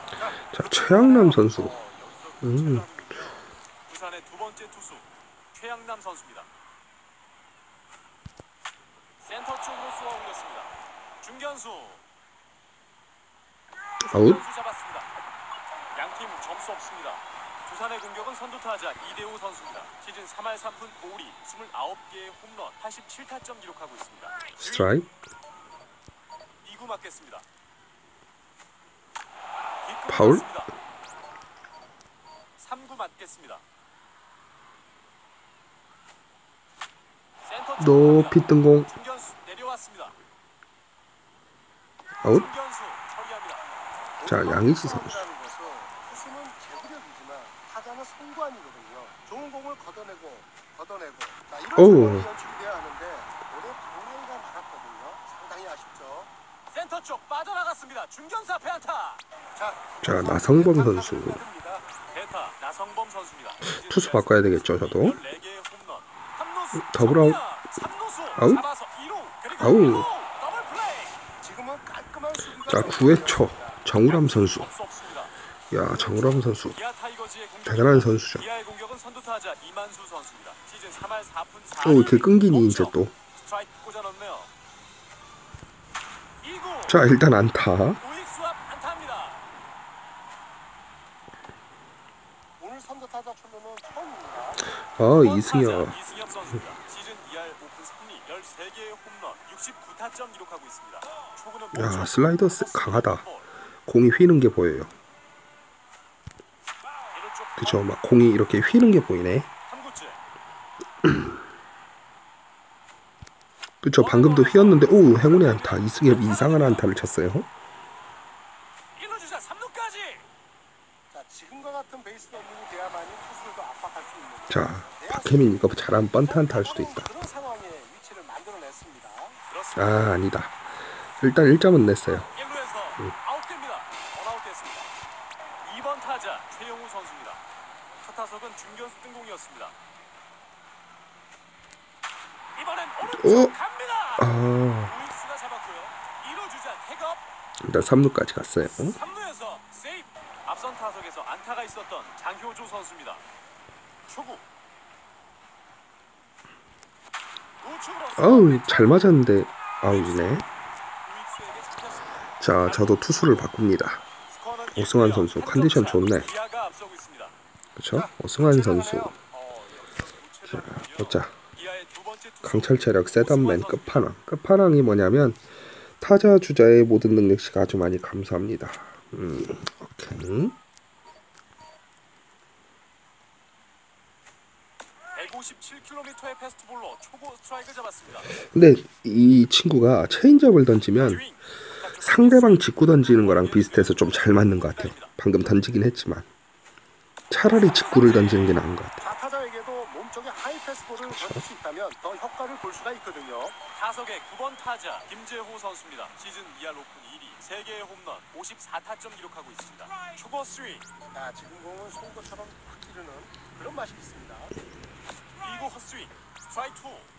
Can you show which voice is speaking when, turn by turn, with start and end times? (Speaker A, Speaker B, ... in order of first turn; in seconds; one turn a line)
Speaker A: 0.4-1.8
Speaker B: 0.6-6.5
Speaker A: 2.4-2.9
Speaker B: 9.2-12.0
Speaker A: 14.1-14.4
Speaker B: 14.1-15.1
Speaker B: 15.9-24.9
Speaker A: 24.6-25.1
Speaker B: 26.6-27.5
Speaker B: 29.8-30.7
Speaker A: 30.1-30.5
Speaker B: 32.6-33.6
Speaker B: 37.4-40.2
Speaker A: 37.8-38.9
Speaker A: 42.2-42.5
Speaker B: 42.3-43.8
Speaker C: 44.2-56.3
Speaker A: 44.2-45.2
Speaker A: 51.8-52.3
Speaker B: 56.7-59.2
Speaker C: 59.5-61.9
Speaker A: 60.0-61.4
Speaker B: 62.0-71.3
Speaker A: 63.6-65.2
Speaker A: 66.8-67.4
Speaker A: 68.3-68.7
Speaker A: 69.5-70.1
Speaker C: 71.4-73.8
Speaker A: 72.7-74.7
Speaker B: 74.0-75.3
Speaker A: 75.7-76.8
Speaker B: 76.7-84.5
Speaker A: 77.7-78.5
Speaker A: 81.8-83.1
Speaker B: 86.4-87.0
Speaker A: 86.9-88.0
Speaker B: 88.0-89.4
Speaker C: 92.6-94.6
Speaker A: 94.7-96.0
Speaker B: 95.2-103.5
Speaker A: 101.7-103.2
Speaker A: 103.9-104.9
Speaker B: 107.1-107.8
Speaker A: 107.6-109.5
Speaker B: 109.7-110.2
Speaker A: 111.0-111.3
Speaker A: 113.8-117.5
Speaker B: 114.0-116.9
Speaker B: 119.0-120.2
Speaker C: 121.1-129.4
Speaker A: 124.5-127.1
Speaker B: 129.5-130.1
Speaker A: 129.8-130.6
Speaker A: 131.2-132.3
Speaker B: 132.1-134.9
Speaker B: 135.6-137.4
Speaker B: 138.0-139.8
Speaker B: 142.6-144.3
Speaker A: 143.1-143.6
Speaker A: 144.2-145.0
Speaker B: 144.9-147.2
Speaker A: 147.6-149.0
Speaker B: 148.9-153.2
Speaker B: 154.1-154.5
Speaker B: 157.6-159.2
Speaker A: 158.2-160.5
Speaker B: 159.8-160.4
Speaker B: 161.0-162.9
Speaker A: 162.4-164.0
Speaker B: 164.3-167.3
Speaker A: 164.7-166.3
Speaker A: 167.8-169.2
Speaker C: 167.9-169.2
Speaker B: 169.2-174.1
Speaker A: 170.5-171.3
Speaker A: 172.4-175.4
Speaker A: 176.0-180.6
Speaker B: 185.1-188.3
Speaker A: 188.4-191.2
Speaker B: 191.0-195.1
Speaker A: 192.0-196.3
Speaker A: 197.3-199.1
Speaker B: 197.5-198.6
Speaker C: 199.0-203.6
Speaker A: 201.0-201.4
Speaker B: 203.6-210.9
Speaker C: 211.1-214.6
Speaker B: 215.4-217.1